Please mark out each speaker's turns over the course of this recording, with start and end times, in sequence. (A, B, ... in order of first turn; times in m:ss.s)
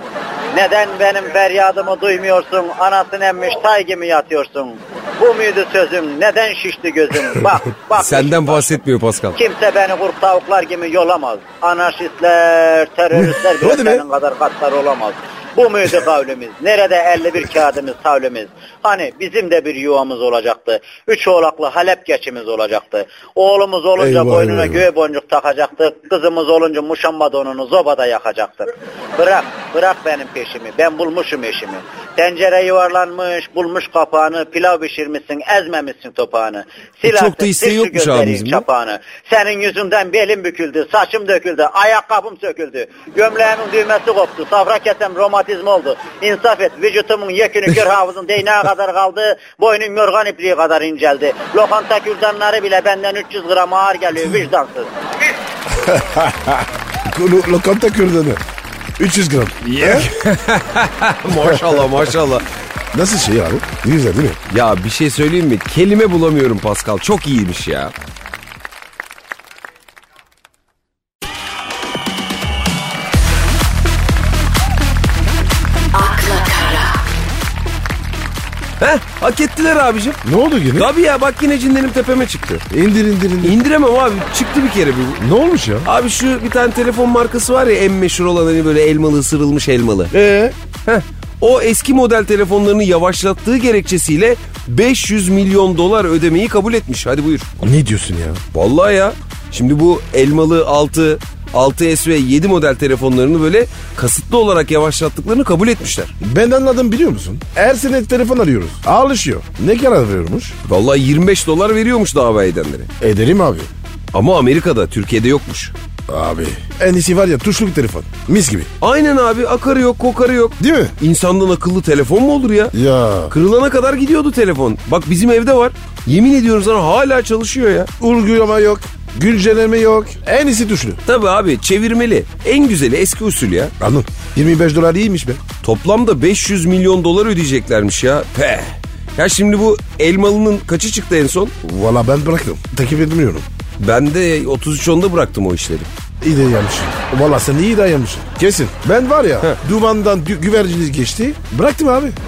0:00.5-0:08.8 A
0:08.0-0:09.4 B
0:09.3-0:55.4 A
0:13.1-0:14.0 C
0:24.0-0:24.9 C
0:37.0-0:38.7 B
0:55.7-0:58.4 C
0:59.0-1:00.1 C
0:59.6-1:02.4 B
1:01.4-1:02.0 C
1:02.9-1:04.4 C
1:04.5-1:07.9 B
1:16.0-1:17.0 A
1:16.0-1:16.8 B
1:18.8-1:20.2 B
1:20.2-1:20.9 C
1:20.8-1:22.6 B
1:22.7-1:23.6 C
1:23.4-1:25.2 B
1:25.2-1:25.9 C
1:25.8-1:30.1 B
1:30.1-1:30.6 C
1:30.8-1:37.5 B
1:37.6-1:38.4 C
1:38.5-1:46.1 B
1:46.2-1:50.6 C
1:50.6-1:52.9 B
1:53.0-1:53.7 C
1:54.1-1:55.7 B
1:56.1-1:58.7 C
1:58.8-2:02.7 B
2:00.6-2:01.0 C
2:02.7-2:03.3 C
2:03.3-2:07.9 B
2:08.0-2:11.0 C
2:11.0-2:13.7 B
2:13.8-2:15.4 C
2:15.6-2:21.5 B
2:21.6-2:23.4 C
2:23.8-2:25.9 B
2:26.2-2:32.2 C